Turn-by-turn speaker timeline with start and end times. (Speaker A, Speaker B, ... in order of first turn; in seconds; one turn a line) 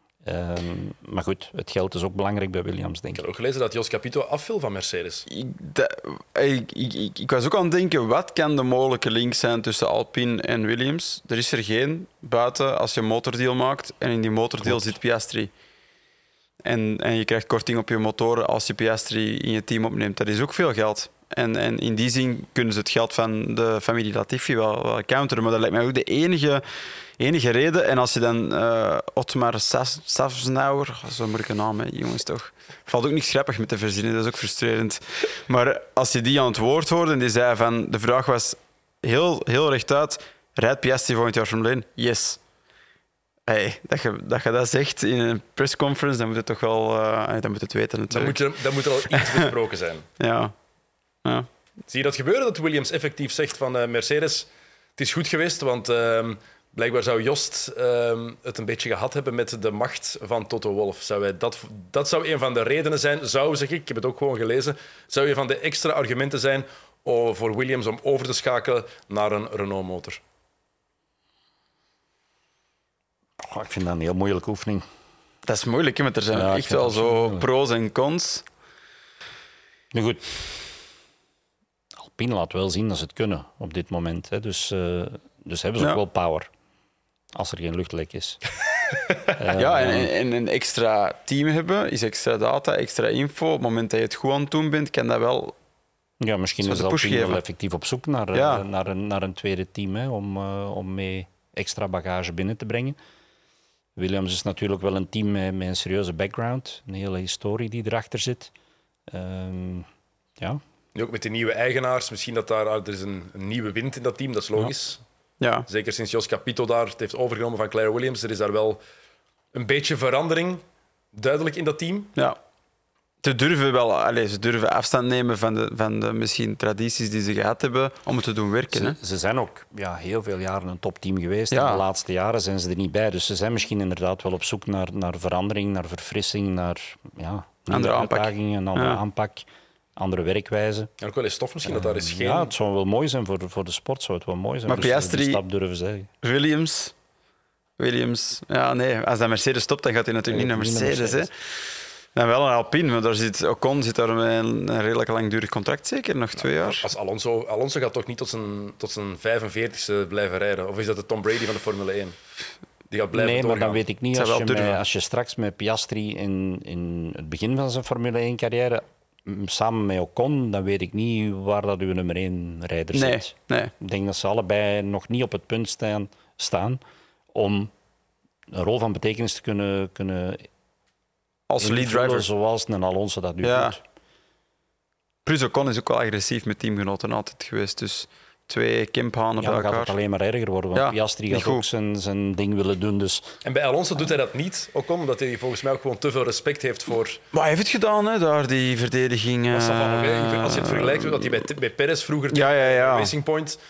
Speaker A: 0.2-3.2
Speaker B: 3.1-5.3
Speaker C: 5.3-15.5
Speaker C: 16.6-26.6
Speaker C: 27.2-42.4
Speaker C: 43.5-48.4
Speaker B: 48.1-50.1
Speaker C: 49.0-49.5
Speaker C: 50.2-50.5
Speaker B: 51.9-70.2
Speaker A: 73.4-74.8
Speaker C: 75.5-78.5
Speaker A: 76.3-77.5
Speaker A: 79.9-80.4
Speaker A: 82.0-86.5
Speaker A: 87.3-88.4
Speaker A: 89.4-90.1
Speaker C: 89.5-95.5
Speaker A: 96.2-103.0
Speaker C: 96.6-97.4
Speaker C: 98.3-98.6
Speaker A: 104.0-108.5
Speaker A: 109.1-109.9
Speaker B: 110.9-115.0
Speaker C: 115.4-115.7
Speaker B: 115.7-118.8
Speaker B: 119.5-120.6
Speaker B: 121.1-122.1
Speaker C: 123.2-129.0
Speaker A: 128.7-139.4
Speaker C: 131.5-131.8
Speaker C: 137.7-139.0
Speaker A: 140.0-140.9
Speaker B: 141.0-142.5
Speaker A: 141.7-146.1
Speaker C: 144.7-145.4
Speaker C: 146.2-146.9
Speaker C: 147.8-151.3
Speaker A: 150.3-151.3
Speaker C: 152.1-156.9
Speaker B: 156.4-162.2
Speaker B: 162.9-163.8
Speaker A: 163.1-176.8
Speaker C: 164.1-164.8
Speaker C: 172.9-173.7
Speaker A: 177.3-177.7
Speaker A: 178.5-180.5
Speaker C: 181.5-182.3
Speaker A: 181.6-183.8
Speaker C: 183.4-183.8
Speaker C: 185.2-189.9
Speaker A: 189.4-193.3
Speaker C: 190.7-191.6
Speaker B: 193.4-197.2
Speaker C: 197.3-201.4
Speaker B: 199.5-203.6
Speaker C: 202.3-203.2